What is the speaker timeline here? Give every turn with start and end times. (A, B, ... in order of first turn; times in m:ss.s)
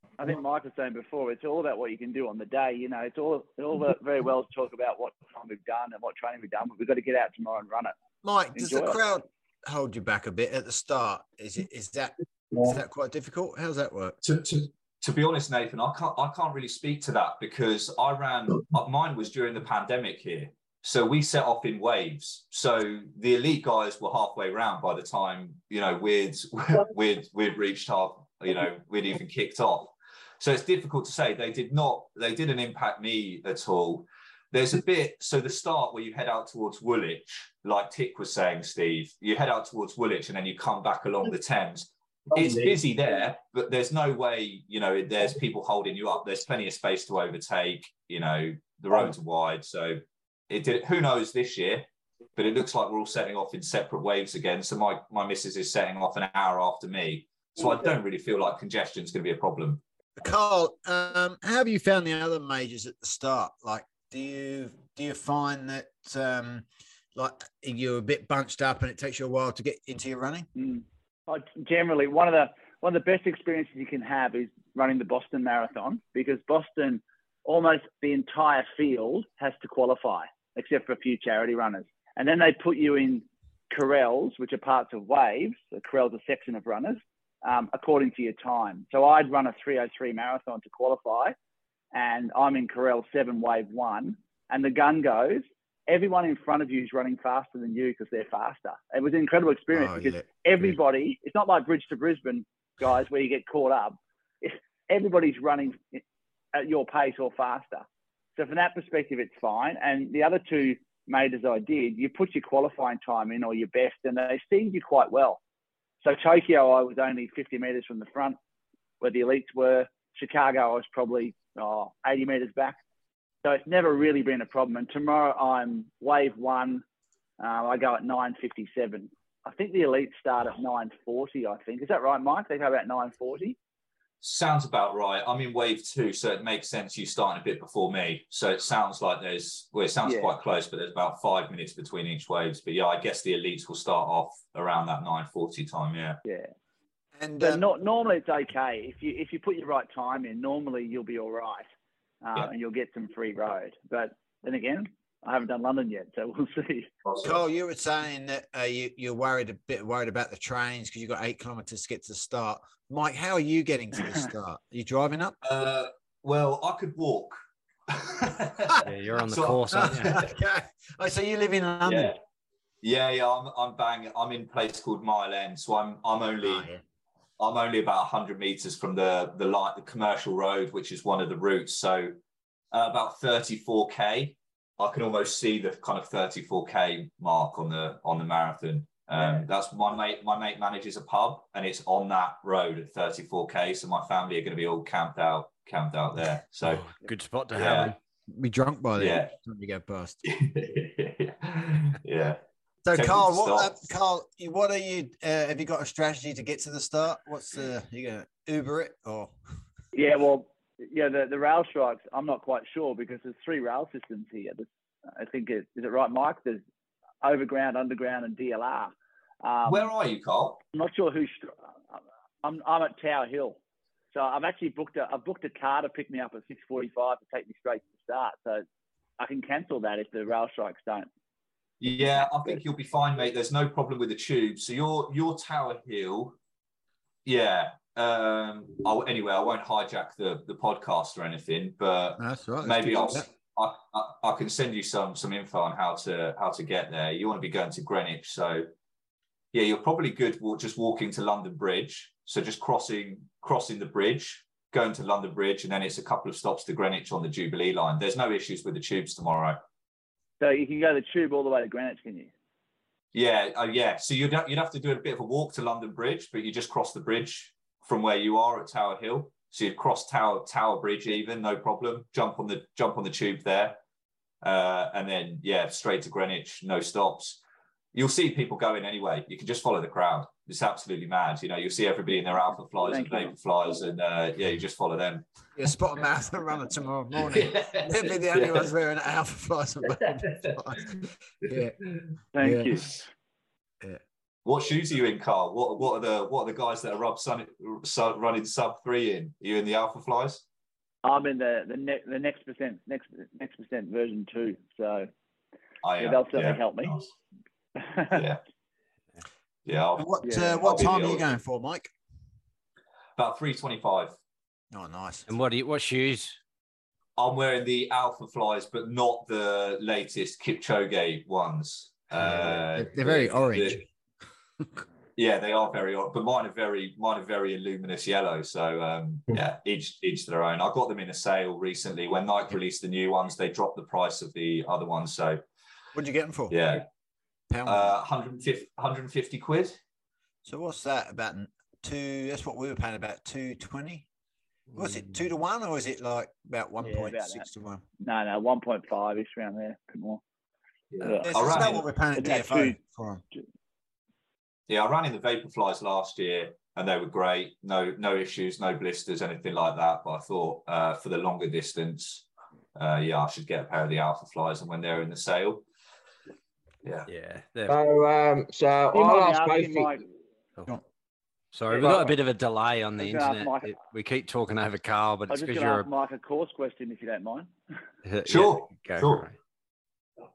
0:00.2-0:08.0 A
0:08.2-0:14.2 B
0:08.5-0:09.0 A
0:14.2-0:59.8 C
1:00.2-1:10.5 B
1:10.6-1:31.4 A
1:31.9-1:46.0 A
1:39.7-1:40.7 B
1:46.5-1:55.4 A
1:56.0-1:58.4 A
1:59.0-2:02.8 A
2:03.4-2:06.8 A
2:07.4-2:13.6 A
2:14.2-2:26.2 C
2:20.0-2:20.3 A
2:26.2-2:26.5 A
2:27.2-2:27.6 B
2:27.4-2:31.7 A
2:32.2-2:36.9 A
2:37.0-2:37.4 C
2:37.2-2:45.4 B
2:45.4-2:50.3 C
2:48.8-2:50.2 D
2:49.7-2:52.1 B
2:51.8-2:52.2 C
2:52.8-2:56.7 C
2:56.4-2:56.8 B
2:57.4-3:02.2 C
3:02.7-3:16.8 C
3:09.2-3:09.4 A
3:16.7-3:18.0 D
3:17.5-3:18.0 C
3:18.3-3:20.2 B
3:19.0-3:19.3 C
3:20.2-3:23.7 C
3:22.9-3:29.3 B
3:29.9-3:36.6 A
3:37.2-3:39.9 A
3:39.7-3:40.6 C
3:40.7-3:41.6 A
3:42.4-3:43.6 A
3:44.1-3:48.7 A
3:49.2-3:51.1 A
3:51.8-3:56.4 C
3:52.1-3:52.6 A
3:57.2-4:08.7 C
4:02.2-4:03.3 B
4:09.5-4:19.6 C
4:20.4-4:22.3 A
4:23.1-4:33.8 C
4:34.4-4:37.4 C
4:37.9-4:45.3 C
4:42.9-4:43.3 A
4:45.6-4:51.8 B
4:47.2-4:48.7 C
4:50.2-4:50.6 C
4:51.4-4:52.2 C
4:52.4-4:52.9 A
4:52.4-4:52.8 B
4:54.4-5:00.4 C
5:01.0-5:05.1 A
5:05.8-5:07.1 C
5:06.0-5:07.0 A
5:07.8-5:08.2 A
5:08.1-5:08.4 C
5:09.7-5:11.3 C
5:10.0-5:11.9 B
5:10.2-5:10.7 A
5:13.2-5:14.2 C
5:14.7-5:15.3 B
5:15.3-5:16.4 D
5:17.2-5:23.8 C
5:22.2-5:23.9 B
5:25.2-5:35.4 C
5:35.9-5:36.6 B
5:36.5-5:36.9 C
5:37.5-5:38.0 B
5:37.7-5:39.8 C
5:40.4-5:44.1 B
5:44.7-5:47.8 B
5:44.8-5:45.2 D
5:46.8-5:47.5 A
5:48.0-5:50.2 A
5:50.9-5:51.8 C
5:51.0-5:52.8 A
5:51.2-5:53.2 B
5:54.7-6:05.6 C
6:07.1-6:07.8 D
6:07.7-6:09.9 E
6:08.9-6:10.1 A
6:11.5-6:15.9 D
6:11.7-6:12.2 A
6:13.0-6:13.8 A
6:15.3-6:17.5 A
6:18.0-6:19.4 D
6:18.2-6:19.3 C